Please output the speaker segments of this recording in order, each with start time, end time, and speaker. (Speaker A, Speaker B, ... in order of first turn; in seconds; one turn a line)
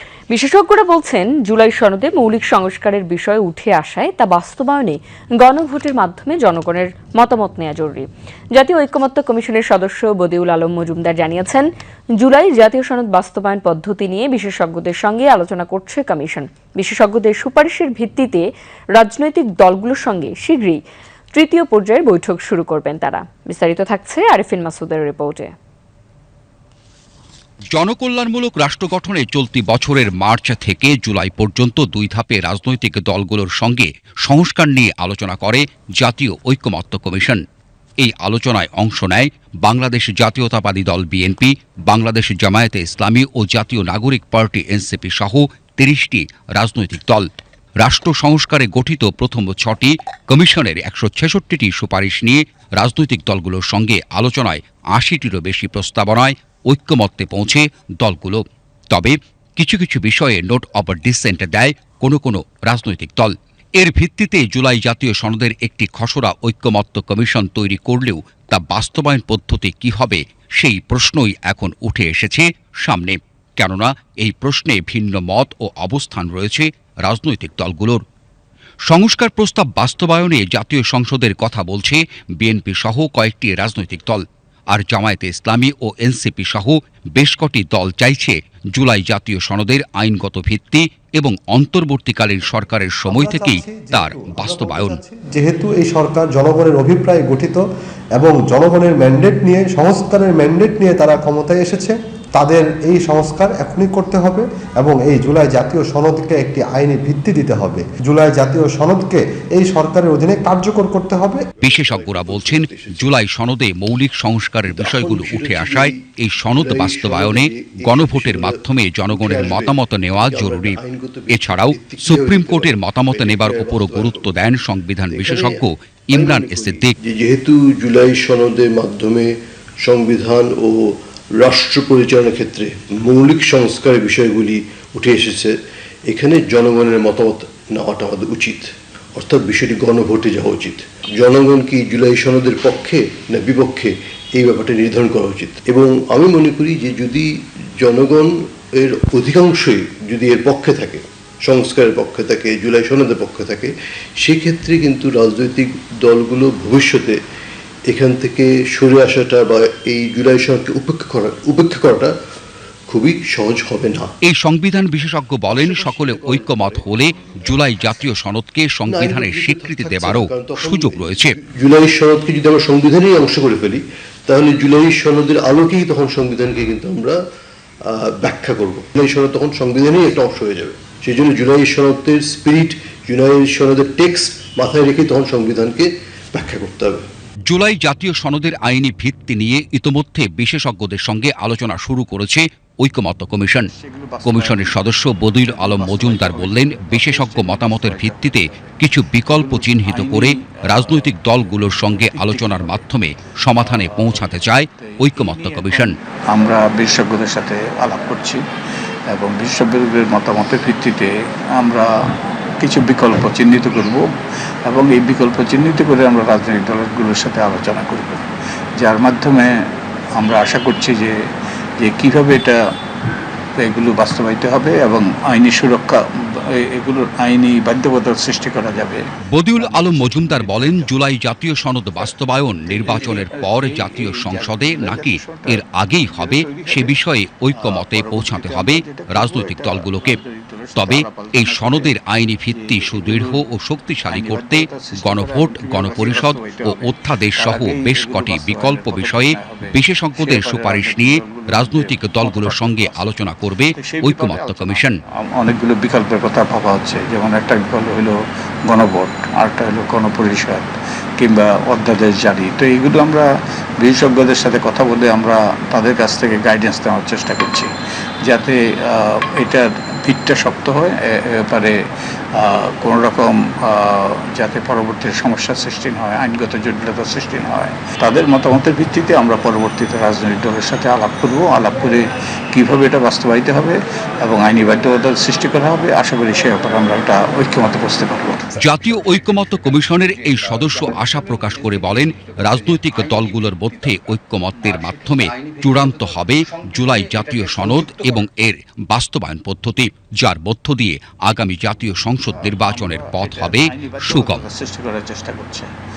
Speaker A: 0.3-20.8
Speaker A: 21.3-25.5
Speaker B: 27.7-37.4
Speaker B: 38.0-47.3
Speaker B: 47.8-78.0
Speaker B: 78.9-95.0
Speaker C: 93.1-97.6
Speaker C: 98.2-111.5
Speaker D: 111.6-113.2
Speaker B: 111.6-120.8
Speaker D: 114.7-116.0
Speaker D: 116.5-124.3
Speaker B: 121.3-126.9
Speaker D: 125.1-135.6
Speaker D: 136.1-147.3
Speaker D: 147.8-153.7
Speaker D: 154.2-157.2
Speaker D: 157.9-162.1
Speaker D: 162.9-164.1
Speaker B: 164.2-171.3
Speaker D: 165.5-167.7
Speaker D: 168.9-177.2
Speaker D: 177.8-187.0
Speaker B: 187.5-193.7
Speaker E: 193.7-201.3
Speaker B: 194.2-206.0
Speaker E: 201.9-202.8
Speaker E: 203.6-208.4
Speaker E: 209.1-211.9
Speaker E: 212.6-214.1
Speaker E: 214.7-218.2
Speaker E: 218.8-219.6
Speaker E: 220.1-221.2
Speaker E: 221.8-222.6
Speaker E: 223.6-229.0
Speaker B: 229.3-240.2
Speaker E: 229.6-230.9
Speaker E: 232.7-236.9
Speaker E: 237.5-242.0
Speaker B: 240.8-255.0
Speaker E: 242.5-243.4
Speaker E: 244.1-253.0
Speaker E: 253.8-263.2
Speaker E: 263.8-267.7
Speaker E: 268.2-271.8
Speaker E: 272.4-288.5
Speaker B: 288.6-304.4
Speaker E: 302.3-305.7